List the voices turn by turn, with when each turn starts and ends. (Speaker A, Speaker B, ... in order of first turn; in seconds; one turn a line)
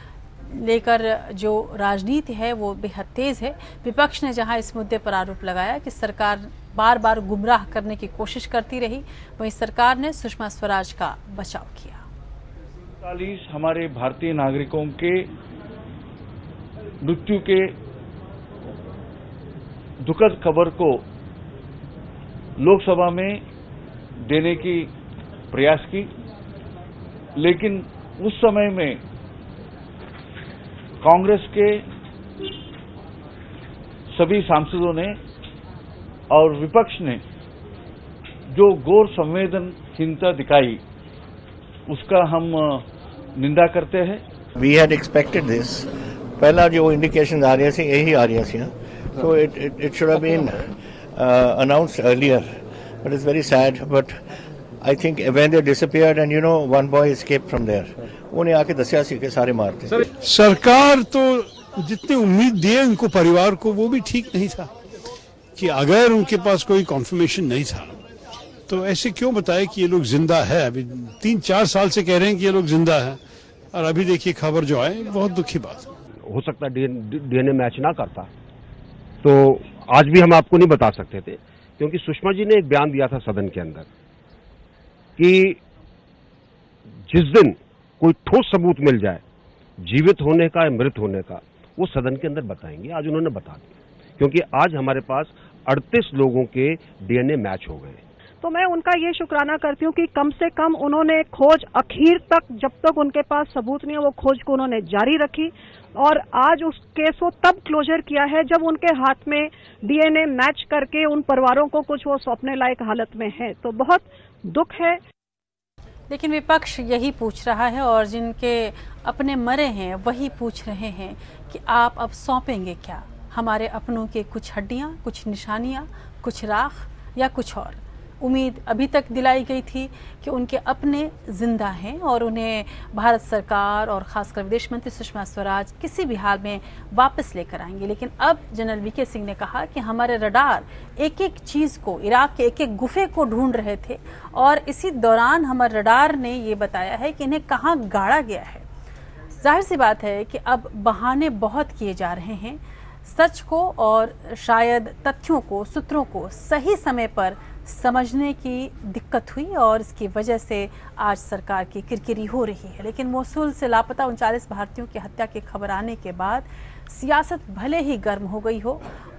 Speaker A: 0.5-12.0
Speaker B: 13.0-15.3
Speaker B: 17.0-17.7
Speaker B: 20.0-21.0
Speaker B: 22.6-23.4
Speaker B: 24.3-24.9
Speaker B: 25.5-26.1
Speaker B: 27.4-29.0
Speaker B: 31.0-31.9
Speaker B: 34.1-35.2
Speaker B: 36.3-37.2
Speaker B: 38.5-40.8
Speaker B: 41.9-44.2
Speaker C: 44.5-54.2
Speaker C: 54.8-60.0
Speaker D: 60.2-64.7
Speaker D: 65.6-68.0
Speaker D: 68.7-73.2
Speaker D: 73.7-75.9
Speaker E: 76.2-78.3
Speaker E: 79.2-83.9
Speaker E: 85.2-85.6
Speaker E: 87.1-89.2
Speaker E: 89.8-98.0
Speaker F: 98.4-115.0
Speaker A: 116.1-148.6
Speaker A: 149.4-168.8